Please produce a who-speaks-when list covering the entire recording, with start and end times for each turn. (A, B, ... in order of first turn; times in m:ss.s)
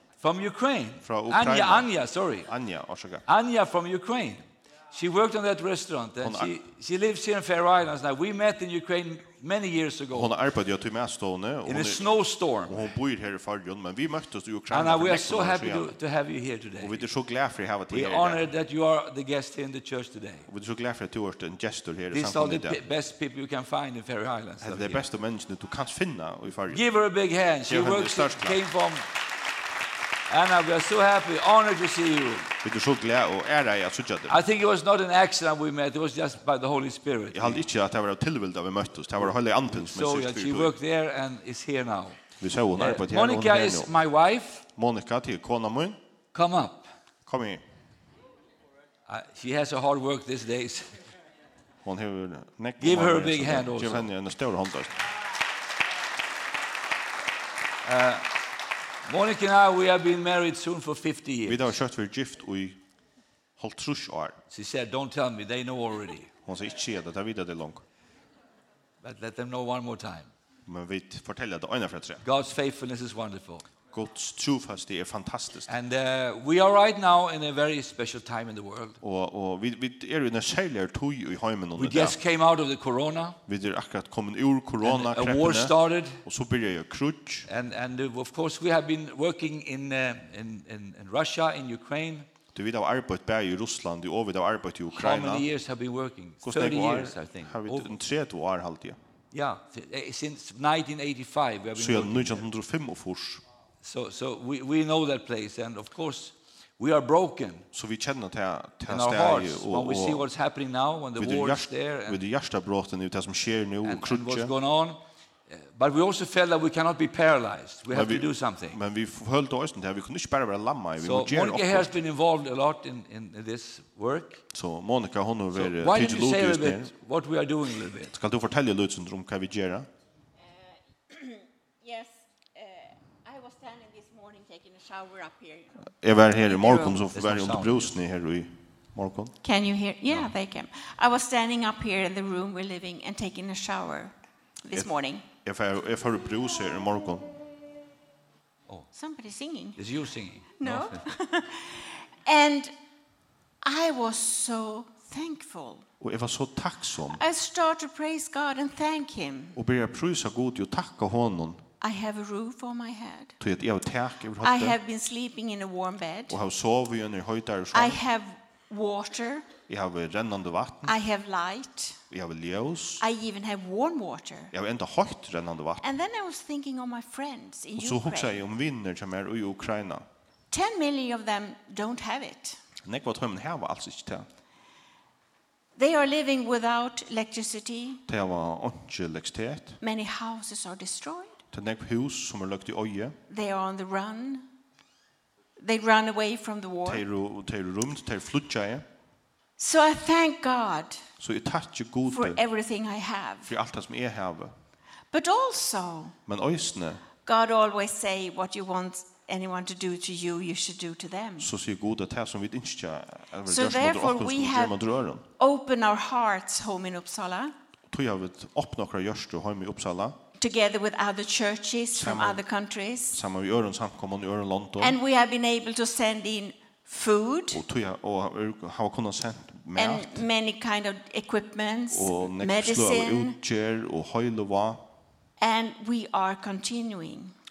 0:00.2-0:02.5 A
0:01.0-0:01.9 B
0:02.5-0:03.2 B
0:03.3-0:10.3 A
0:06.2-0:06.5 B
0:10.1-0:12.1 B
0:11.7-0:12.9 A
0:12.7-0:16.0 B
0:14.7-0:17.0 A
0:16.8-0:18.5 B
0:17.9-0:20.5 A
0:20.5-0:22.8 B
0:22.1-0:25.1 A
0:24.6-0:26.8 B
0:26.7-0:29.1 A
0:27.7-0:28.6 B
0:30.3-0:32.5 A
0:32.6-0:34.4 B
0:34.3-0:37.6 A
0:37.3-0:40.8 B
0:39.8-0:42.2 A
0:42.4-0:44.0 B
0:42.8-0:44.6 A
0:44.8-0:46.0 B
0:46.3-0:46.9 A
0:47.3-0:47.6 B
0:49.1-0:51.0 A
0:51.8-0:55.0 B
0:52.8-0:54.1 A
0:57.8-0:58.3 A
0:59.1-1:01.7 A
1:01.4-1:02.8 B
1:03.6-1:04.4 B
1:04.5-1:06.3 A
1:06.5-1:07.8 B
1:09.0-1:10.3 A
1:10.7-1:12.2 B
1:12.2-1:13.7 A
1:13.9-1:15.7 B
1:15.7-1:19.0 A
1:19.0-1:22.2 B
1:21.8-1:23.4 A
1:23.5-1:27.5 B
1:24.8-1:26.2 A
1:27.5-1:32.3 A
1:32.5-1:35.5 B
1:34.9-1:38.0 A
1:36.4-1:39.0 B
1:39.3-1:42.5 A
1:41.8-1:43.4 B
1:43.8-1:47.7 A
1:47.7-1:50.3 B
1:48.9-1:52.2 A
1:51.2-1:54.5 B
1:53.8-1:58.8 A
1:57.9-2:01.9 B
2:01.0-2:04.4 A
2:04.5-2:06.9 B
2:05.5-2:08.1 A
2:08.1-2:09.9 B
2:10.4-2:15.9 C
2:15.9-2:19.3 B
2:16.5-2:18.0 A
2:19.4-2:25.3 C
2:25.4-2:27.3 B
2:28.9-2:29.8 C
2:29.8-2:31.0 A
2:30.6-2:32.7 C
2:33.6-2:35.9 C
2:36.0-2:37.2 B
2:37.1-2:39.6 C
2:39.6-2:41.6 B
2:41.8-2:43.4 C
2:43.4-2:44.8 B
2:44.4-2:46.4 C
2:46.3-2:48.0 B
2:47.7-2:49.5 C
2:49.7-2:51.0 B
2:50.9-2:52.0 C
2:52.1-2:53.0 B
2:53.0-2:54.5 C
2:54.5-2:55.8 B
2:55.8-2:58.4 C
2:57.8-3:00.0 B
3:00.5-3:02.6 C
3:02.8-3:04.3 B
3:05.8-3:08.0 C
3:08.1-3:09.8 B
3:09.8-3:11.4 C
3:11.5-3:13.2 B
3:13.3-3:14.5 C
3:15.6-3:17.0 C
3:16.8-3:18.8 B
3:19.6-3:21.0 C
3:21.2-3:22.4 B
3:22.1-3:23.5 C
3:23.5-3:24.5 B
3:25.1-3:26.2 C
3:26.3-3:27.0 B
3:27.2-3:31.5 C
3:31.4-3:35.2 B
3:33.5-3:34.8 C
3:35.4-3:37.5 C
3:37.9-3:40.2 B
3:40.4-3:43.2 C
3:42.0-3:42.4 B
3:43.1-3:45.0 B
3:44.8-3:47.6 C
3:47.5-3:50.2 B
3:49.8-3:53.4 C
3:51.9-3:54.8 B
3:55.4-3:57.3 C